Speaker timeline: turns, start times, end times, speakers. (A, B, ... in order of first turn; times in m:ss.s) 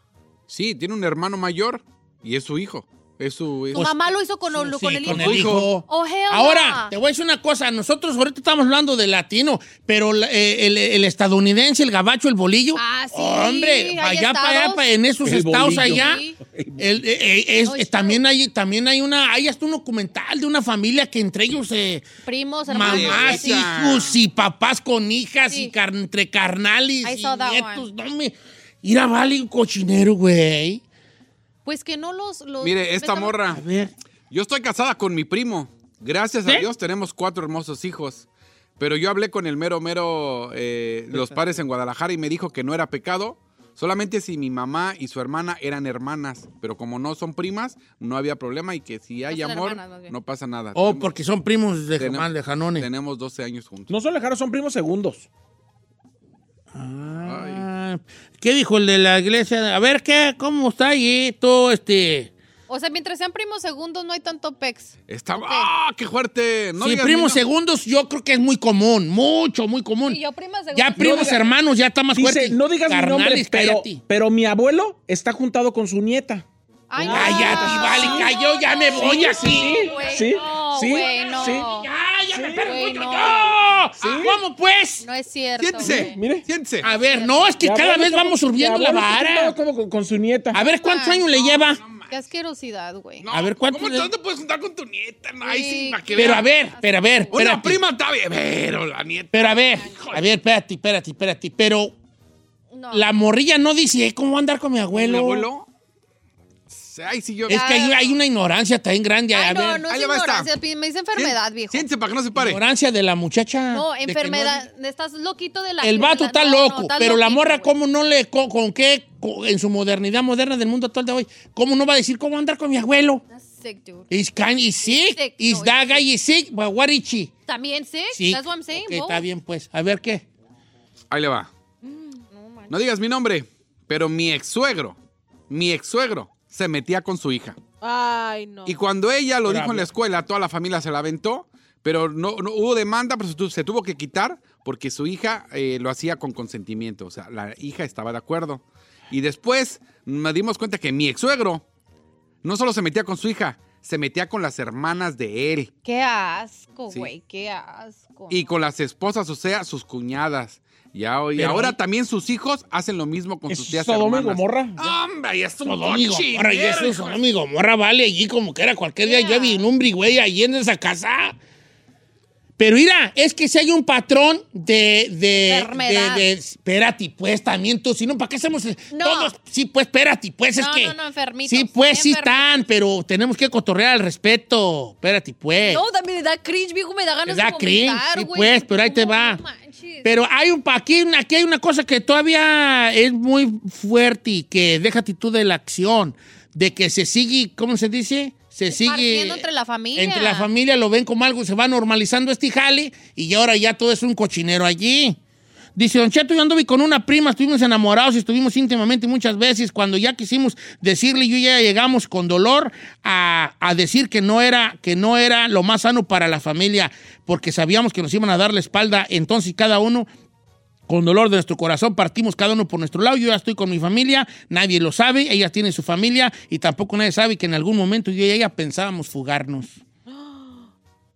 0:00.5-0:03.8 A
0:03.7-0:06.9 B
0:03.7-0:16.2 C
0:05.1-0:05.7 A
0:12.7-0:14.8 B
0:15.2-0:16.0 D
0:15.6-0:16.4 B
0:16.8-0:22.0 C
0:17.6-0:18.2 B
0:22.2-0:23.7 B
0:22.7-0:30.8 C
0:22.8-0:24.2 A
0:25.5-0:25.7 B
0:27.0-0:27.9 B
0:31.6-0:33.4 B
0:32.6-0:33.6 A
0:33.5-0:33.9 C
0:34.3-0:38.3 A
0:38.8-0:51.1 A
0:41.1-0:41.4 C
0:49.3-0:50.1 B
0:50.7-0:52.9 C
0:52.0-0:53.9 A
0:53.9-0:55.3 D
0:56.7-1:02.3 C
0:57.2-0:57.6 A
1:02.7-1:05.7 B
1:05.1-1:07.4 A
1:06.8-1:10.2 C
1:10.1-1:11.5 B
1:10.7-1:14.0 C
1:11.0-1:11.4 D
1:12.1-1:16.4 D
1:16.9-1:21.9 B
1:17.0-1:18.2 D
1:17.1-1:20.2 C
1:17.1-1:18.3 E
1:19.0-1:21.7 D
1:20.9-1:25.0 C
1:22.3-1:22.7 D
1:22.6-1:23.5 B
1:24.0-1:24.4 D
1:25.0-1:26.2 B
1:25.6-1:26.8 A
1:25.8-1:26.5 D
1:26.8-1:27.5 B
1:26.8-1:29.6 C
1:27.6-1:30.6 D
1:30.5-1:31.8 C
1:30.6-1:31.3 B
1:31.3-1:32.1 A
1:32.1-1:33.2 B
1:33.2-1:36.5 A
1:33.3-1:34.1 C
1:35.4-1:37.3 B
1:36.2-1:37.8 C
1:37.3-1:40.2 A
1:39.3-1:41.9 C
1:39.6-1:40.0 B
1:42.7-1:43.1 B
1:42.9-1:45.5 C
1:44.9-1:45.7 A
1:46.7-1:47.6 A
1:47.5-1:49.8 C
1:47.5-1:48.1 B
1:49.3-1:51.9 B
1:49.9-1:50.5 A
1:51.1-1:52.6 A
1:52.3-1:54.6 C
1:53.7-1:57.7 B
1:55.8-2:03.2 C
2:03.3-2:04.1 B
2:04.1-2:07.3 C
2:04.8-2:06.0 B
2:07.5-2:09.2 B
2:08.1-2:10.2 C
2:11.1-2:11.5 A
2:11.8-2:12.2 E
2:12.3-2:12.8 B
2:12.7-2:15.0 A
2:15.5-2:17.6 A
2:17.8-2:18.8 E
2:18.6-2:31.6 A
2:19.4-2:19.9 C
2:32.4-2:35.7 A
2:35.8-2:38.4 B
2:38.3-2:47.2 A
2:41.4-2:41.8 C
2:43.5-2:44.8 D
2:45.6-2:51.3 C
2:49.0-2:49.6 B
2:52.6-3:05.8 C
2:55.4-2:56.3 B
2:58.9-2:59.3 B
3:00.6-3:02.6 B
3:05.6-3:10.1 B
3:07.3-3:09.4 C
3:10.0-3:25.2 C
3:18.7-3:20.5 B
3:25.8-3:40.1 C
3:40.9-3:49.8 C
3:50.1-3:50.6 E